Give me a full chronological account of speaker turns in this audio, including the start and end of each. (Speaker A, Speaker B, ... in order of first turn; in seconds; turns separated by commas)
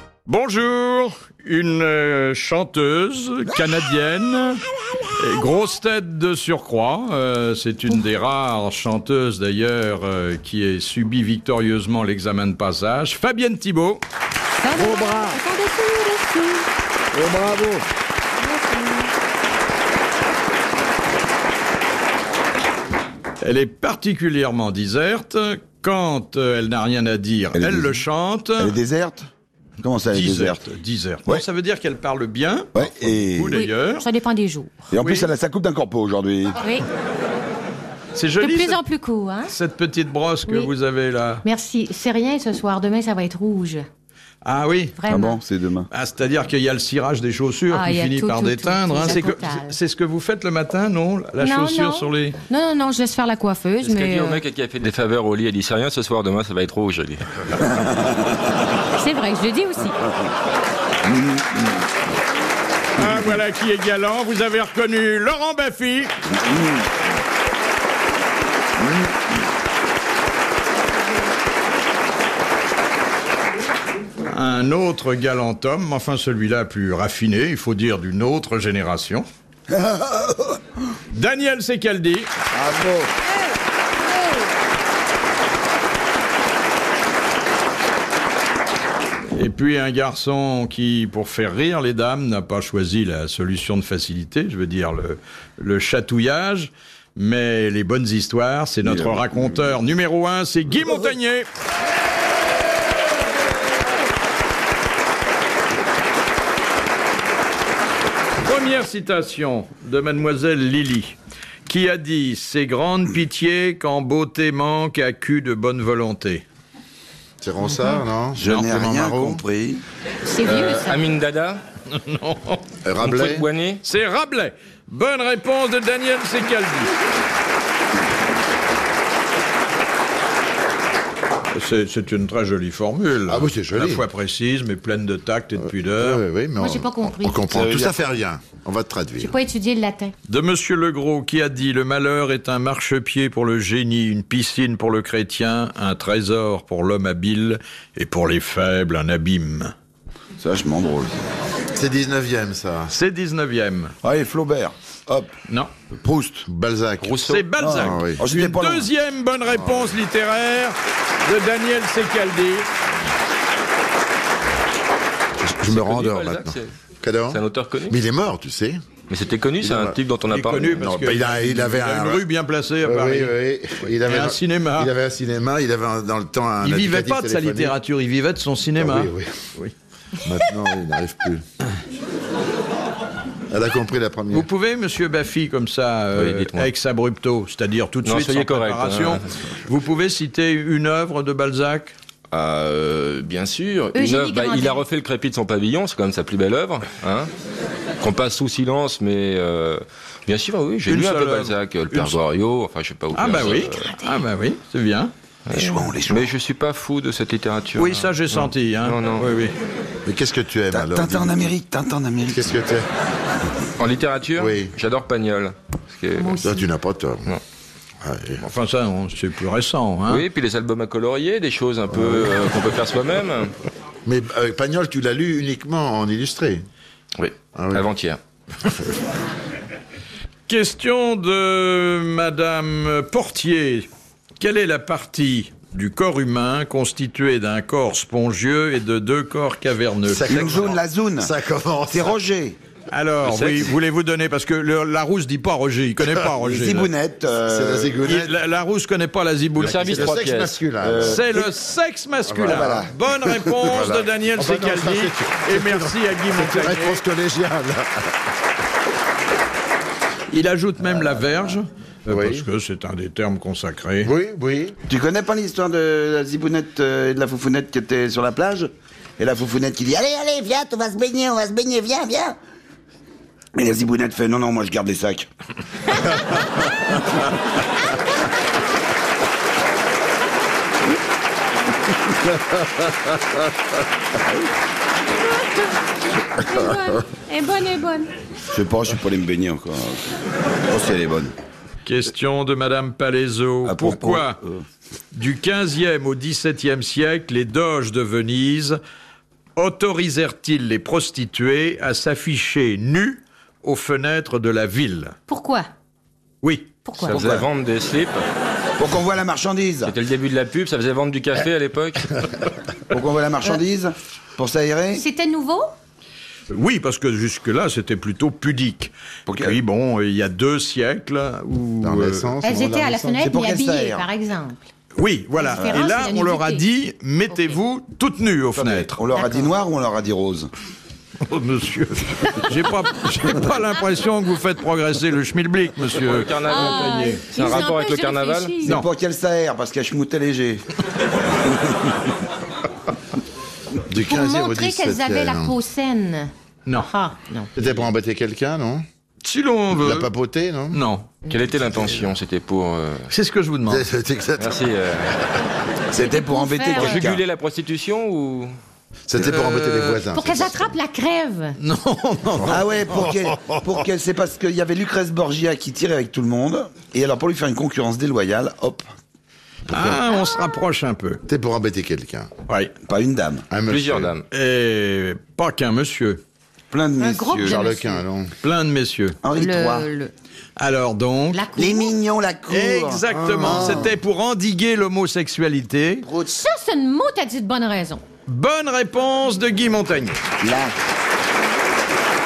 Speaker A: 0.2-4.6, Speaker A: 5.2-14.0, Speaker B: 14.6-16.6, Speaker A: 14.7-15.4, Speaker A: 17.1-17.8, Speaker B: 18.4-19.1, Speaker A: 23.4-28.7, Speaker C: 27.5-28.0, Speaker C: 28.6-29.3, Speaker C: 29.8-30.6, Speaker A: 30.1-34.1, Speaker C: 32.7-33.6, Speaker B: 33.5-34.9, Speaker C: 34.9-36.6, Speaker A: 35.0-35.3, Speaker A: 38.1-38.8, Speaker B: 38.4-39.5, Speaker A: 39.5-41.4, Speaker B: 41.4-43.9, Speaker A: 44.4-45.0, Speaker B: 45.0-45.4, Speaker C: 45.1-45.9, Speaker A: 45.9-52.4, Speaker B: 47.7-49.8, Speaker B: 51.4-54.4, Speaker D: 53.8-57.3, Speaker B: 59.0-60.0, Speaker C: 61.1-61.5, Speaker A: 63.0-66.1, Speaker A: 74.2-79.2, Speaker C: 79.7-80.6, Speaker A: 81.1-82.3, Speaker C: 82.5-83.1, Speaker A: 89.3-101.5, Speaker A: 108.4-116.4, Speaker E: 117.4-119.4, Speaker B: 117.7-118.0, Speaker C: 118.3-119.8, Speaker B: 120.2-121.1, Speaker D: 120.8-121.6, Speaker A: 121.9-122.7, Speaker E: 122.8-123.5, Speaker D: 123.0-123.8, Speaker A: 123.8-126.9, Speaker A: 131.5-136.2, Speaker E: 133.3-134.1, Speaker E: 135.6-139.3, Speaker B: 136.6-137.6, Speaker D: 137.6-138.1, Speaker B: 139.2-140.1, Speaker A: 140.3-149.7, Speaker C: 150.4-151.3, Speaker E: 151.7-152.9, Speaker A: 152.9-153.9, Speaker C: 154.0-155.3, Speaker C: 155.9-156.4, Speaker E: 156.4-157.2, Speaker D: 157.0-157.4, Speaker A: 157.2-162.7, Speaker C: 157.6-158.9, Speaker E: 157.8-158.2, Speaker E: 165.4-168.8, Speaker D: 165.6-166.7, Speaker D: 167.3-168.0, Speaker D: 169.1-170.9, Speaker E: 169.6-170.0, Speaker A: 170.3-173.3, Speaker E: 170.8-172.2, Speaker E: 172.8-177.7, Speaker A: 174.0-174.9, Speaker A: 176.6-179.7, Speaker E: 178.8-179.5, Speaker E: 180.2-181.4, Speaker E: 183.5-184.5, Speaker A: 184.3-191.9, Speaker D: 186.1-186.7, Speaker D: 188.0-189.3, Speaker D: 192.3-197.3, Speaker B: 193.9-194.8, Speaker D: 198.0-203.9, Speaker A: 200.9-202.2, Speaker A: 203.1-205.1, Speaker B: 203.6-204.2, Speaker D: 205.4-209.3, Speaker C: 205.5-206.3, Speaker A: 207.8-209.5, Speaker E: 210.1-211.5, Speaker C: 210.7-212.5, Speaker E: 212.3-212.8, Speaker D: 213.8-216.4, Speaker E: 214.3-214.7, Speaker B: 216.2-216.6, Speaker E: 216.4-217.3, Speaker E: 218.0-218.4, Speaker A: 218.4-220.2, Speaker D: 220.1-223.5, Speaker E: 222.0-222.2, Speaker E: 224.1-226.6, Speaker D: 227.2-228.2, Speaker E: 227.5-227.8, Speaker A: 230.5-233.9, Speaker A: 234.4-240.6, Speaker E: 240.0-242.2, Speaker C: 240.2-241.3, Speaker C: 241.9-242.6, Speaker A: 242.9-246.9, Speaker D: 243.2-243.7, Speaker C: 246.4-248.0, Speaker E: 247.4-248.3, Speaker A: 248.0-250.1, Speaker D: 249.6-250.6, Speaker E: 249.6-251.2, Speaker C: 250.8-251.5, Speaker A: 251.0-257.0, Speaker E: 252.2-252.8, Speaker C: 252.4-253.7, Speaker E: 253.7-258.2, Speaker A: 260.3-264.1, Speaker E: 262.1-262.4, Speaker E: 264.0-264.8, Speaker C: 264.9-272.4, Speaker C: 273.5-275.3, Speaker C: 284.2-284.5, Speaker B: 286.2-288.1, Speaker C: 288.5-290.1, Speaker C: 290.7-291.3, Speaker A: 291.8-294.4, Speaker C: 293.6-294.6, Speaker A: 295.1-298.8, Speaker A: 299.6-305.1, Speaker B: 305.3-305.7, Speaker A: 306.4-307.1, Speaker B: 306.9-307.1, Speaker D: 307.0-308.2, Speaker C: 307.1-307.4, Speaker C: 308.8-309.9, Speaker D: 309.9-312.1, Speaker C: 312.9-315.0, Speaker B: 314.9-315.7, Speaker A: 316.5-322.3, Speaker C: 319.3-319.6, Speaker E: 321.8-323.3, Speaker B: 322.4-324.7, Speaker C: 323.2-324.1, Speaker A: 324.9-329.0, Speaker B: 325.3-326.6, Speaker C: 325.6-326.0, Speaker C: 328.5-330.5, Speaker B: 329.1-329.5, Speaker A: 331.2-337.2, Speaker D: 335.9-338.6, Speaker B: 336.4-338.8, Speaker C: 338.6-340.6, Speaker E: 343.9-345.6, Speaker B: 344.0-347.5, Speaker E: 347.6-348.8, Speaker A: 349.2-350.1, Speaker E: 349.7-350.8, Speaker A: 350.7-351.1, Speaker D: 351.3-353.1, Speaker A: 353.1-353.8, Speaker E: 353.7-354.6, Speaker D: 354.4-355.1, Speaker C: 355.9-357.2, Speaker B: 355.9-357.1, Speaker D: 356.7-358.5, Speaker E: 359.1-360.7, Speaker A: 359.2-360.0, Speaker B: 360.1-361.6, Speaker A: 361.6-362.6, Speaker E: 362.2-363.8, Speaker C: 362.5-368.9, Speaker A: 369.7-371.2, Speaker E: 371.3-372.3, Speaker C: 372.9-373.4, Speaker E: 373.5-374.1, Speaker D: 373.7-374.2, Speaker A: 374.3-376.2, Speaker C: 376.7-377.6, Speaker B: 377.0-378.0, Speaker E: 377.4-378.3, Speaker A: 378.4-379.2, Speaker C: 379.2-379.9, Speaker B: 379.3-380.1, Speaker A: 380.6-381.5, Speaker B: 381.3-381.9, Speaker C: 381.6-383.9, Speaker A: 382.5-386.1, Speaker E: 383.4-383.9, Speaker B: 386.1-388.0, Speaker A: 388.3-390.2, Speaker C: 390.4-390.7